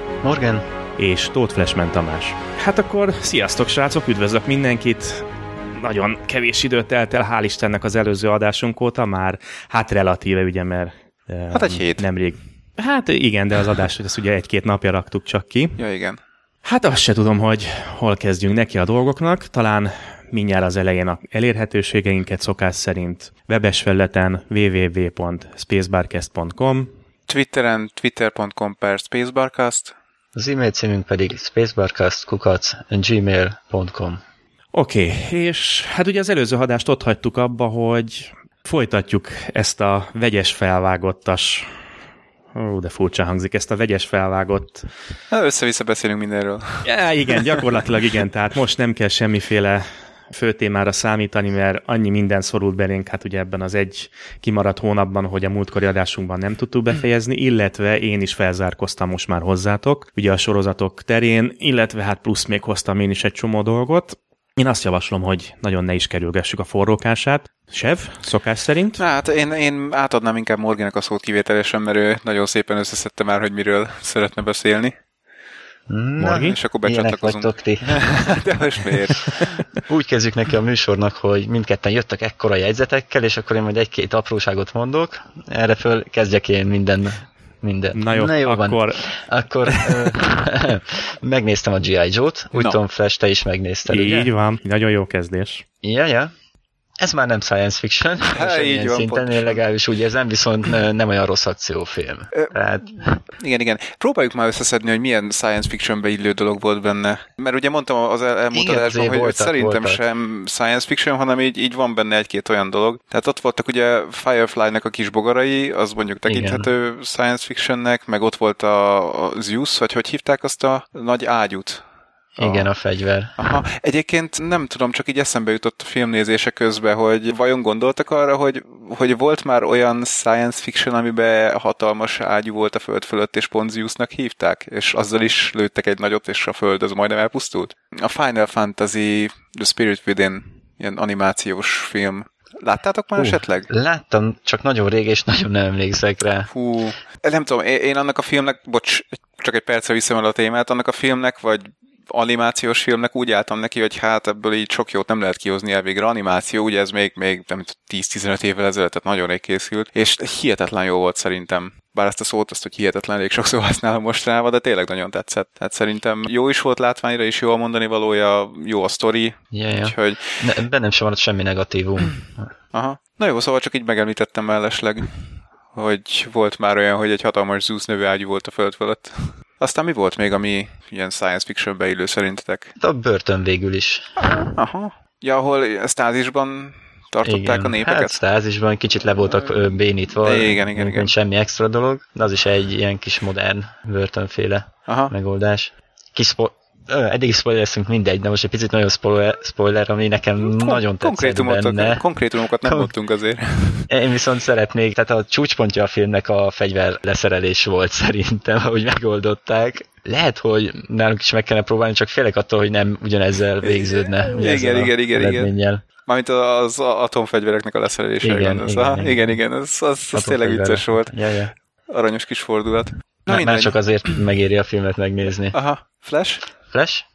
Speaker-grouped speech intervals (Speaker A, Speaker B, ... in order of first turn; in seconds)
Speaker A: 0.2-0.7, 30.4-34.2, 75.9-78.0, 79.8-94.3, 95.8-96.3, 97.0-103.2, 108.5-110.0, 116.3-116.7, 122.4-123.3, 143.2-146.5, 169.5-172.5, 182.8-184.1, 187.2-202.1, 202.6-202.9, 203.9-215.8, 218.2-219.2, 220.1-221.5, 223.3-225.6, 226.7-227.1
Speaker B: 1.0-15.8, 16.6-26.9, 34.7-41.7, 42.5-44.9, 46.8-69.0, 76.2-76.6, 87.9-89.0, 89.7-90.0, 93.9-95.7
Speaker C: 11.5-12.1, 15.8-16.2, 27.3-29.9, 45.3-47.7, 69.0-74.9, 76.3-79.7, 98.3-99.6, 103.4-121.8, 122.4-122.7, 123.4-143.7, 146.5-170.3, 172.7-175.2, 175.7-182.7, 184.2-188.2, 190.2-191.1, 200.4-203.9, 213.6-215.5, 216.1-221.1, 221.9-223.8, 225.5-226.4